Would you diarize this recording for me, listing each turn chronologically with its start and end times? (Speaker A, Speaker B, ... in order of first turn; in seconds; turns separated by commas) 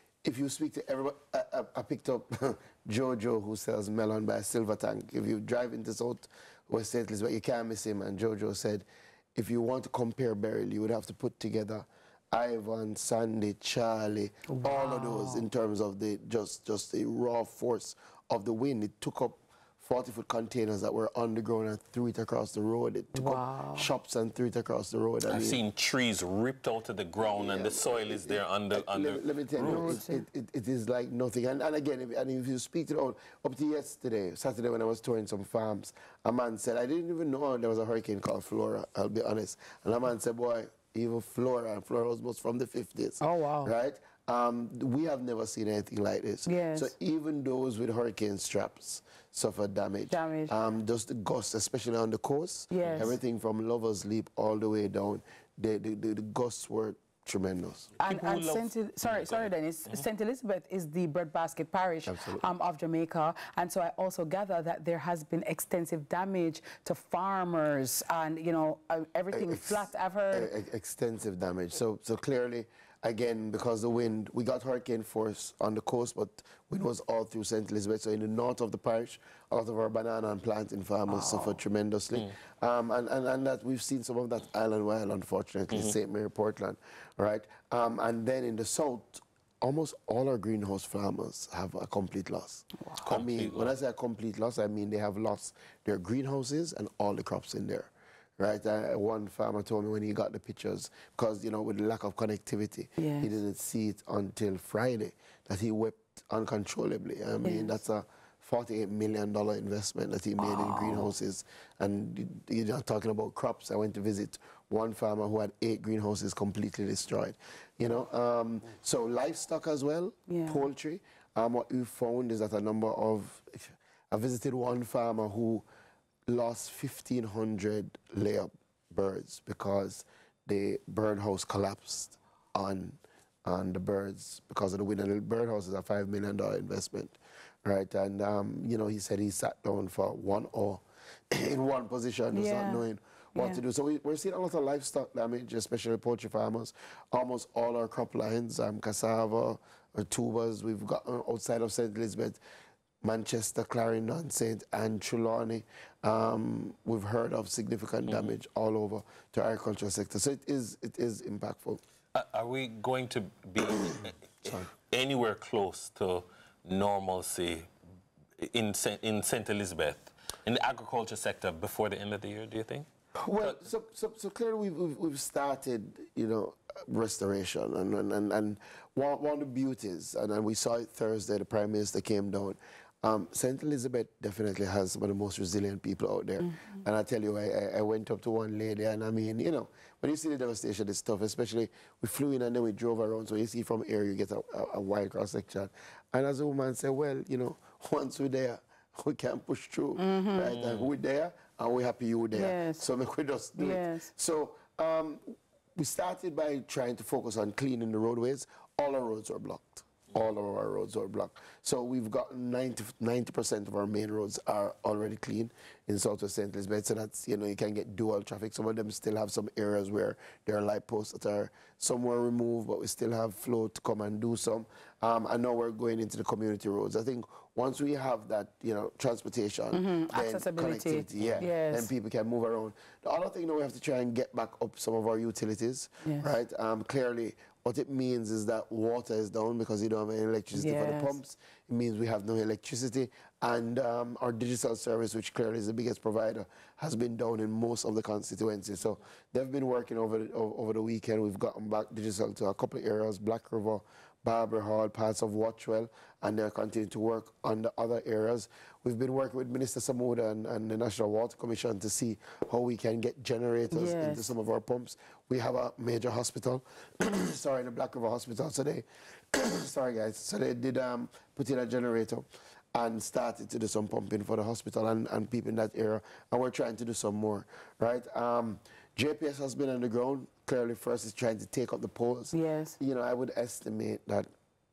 Speaker A: 0.2-25.6, Speaker B: 14.5-15.5, Speaker B: 23.1-23.9, Speaker C: 25.2-30.1, Speaker A: 27.2-57.9, Speaker B: 29.7-30.2, Speaker B: 43.2-43.7, Speaker B: 46.5-46.9, Speaker B: 50.1-50.5, Speaker B: 52.7-53.1, Speaker C: 52.8-53.1, Speaker B: 58.0-70.5, Speaker C: 58.0-60.0, Speaker A: 62.0-62.5, Speaker A: 69.3-125.6, Speaker B: 81.1-81.6, Speaker C: 85.7-86.0, Speaker B: 92.8-93.1, Speaker C: 93.0-93.7, Speaker B: 103.0-103.3, Speaker B: 107.4-107.7, Speaker B: 110.4-110.9, Speaker B: 120.3-120.6, Speaker A: 126.3-152.4, Speaker B: 142.3-143.6, Speaker A: 153.0-161.8, Speaker C: 158.1-158.3, Speaker C: 162.1-167.7, Speaker C: 168.4-172.9, Speaker A: 173.2-284.3, Speaker B: 186.5-186.8, Speaker B: 199.9-200.5, Speaker C: 200.5-200.9, Speaker B: 202.3-202.9, Speaker B: 203.6-204.1, Speaker B: 229.7-231.9, Speaker C: 231.2-231.5, Speaker B: 236.0-236.3, Speaker B: 240.5-241.2, Speaker B: 263.7-264.3, Speaker B: 282.3-282.8